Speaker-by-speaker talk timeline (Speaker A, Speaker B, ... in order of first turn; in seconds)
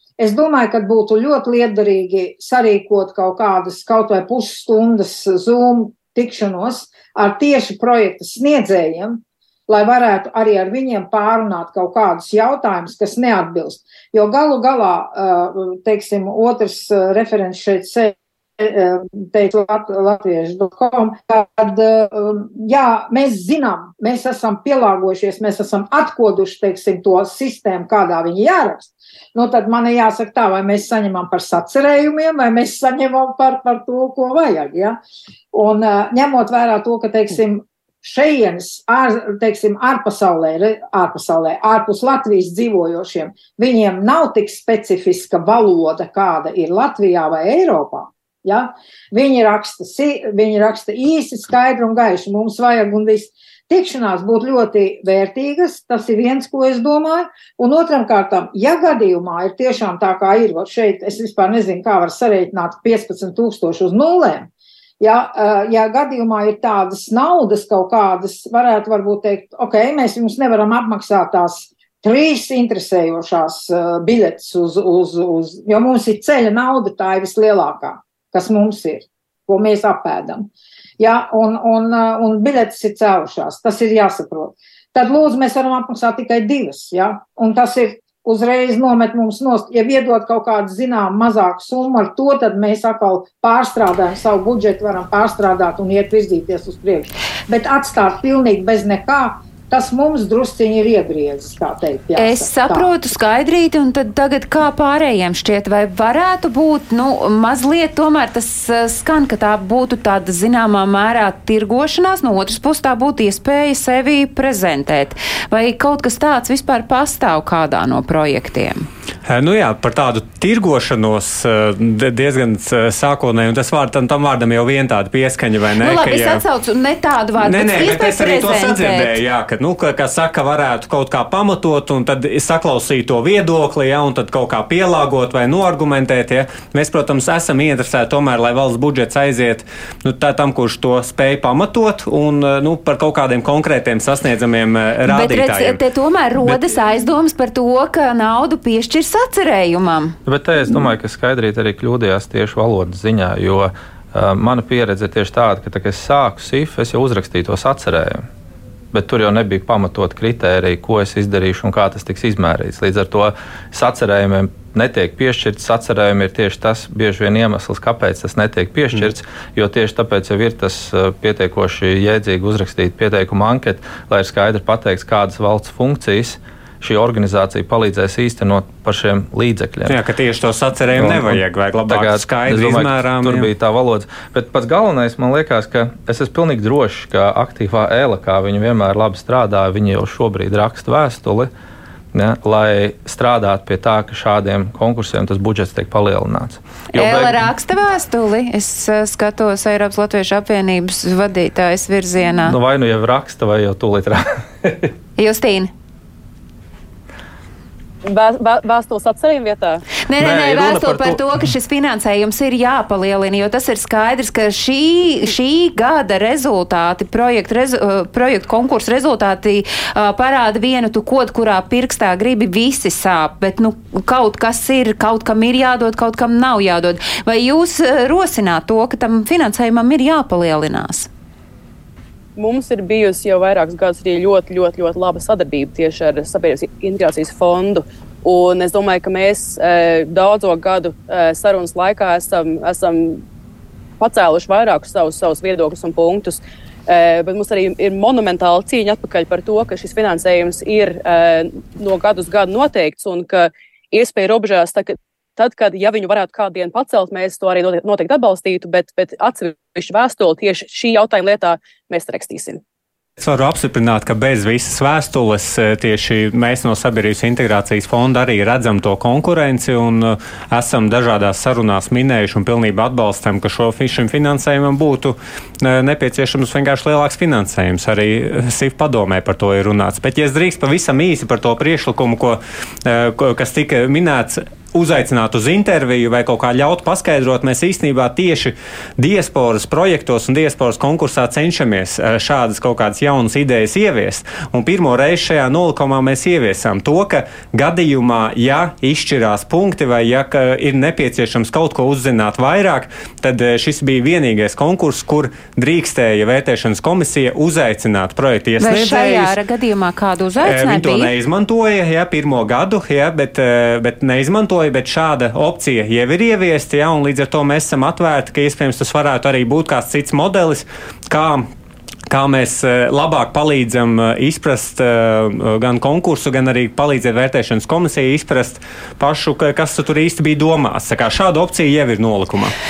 Speaker A: 0.2-35.0, 35.5-64.5, 65.0-80.5, 81.0-102.9
Speaker B: 102.2-118.9, 125.8-129.2, 145.1-150.2, 196.9-202.6, 205.2-205.7, 210.1-231.1, 308.6-311.1
Speaker C: 119.3-126.4, 127.4-145.8, 179.9-183.5, 263.2-309.4, 310.4-321.5, 322.1-332.5
Speaker D: 150.3-158.3, 158.9-180.0, 180.9-191.5, 192.1-197.5, 202.4-204.9, 210.2-211.2
Speaker E: 208.0-209.8, 232.4-243.2, 244.0-262.6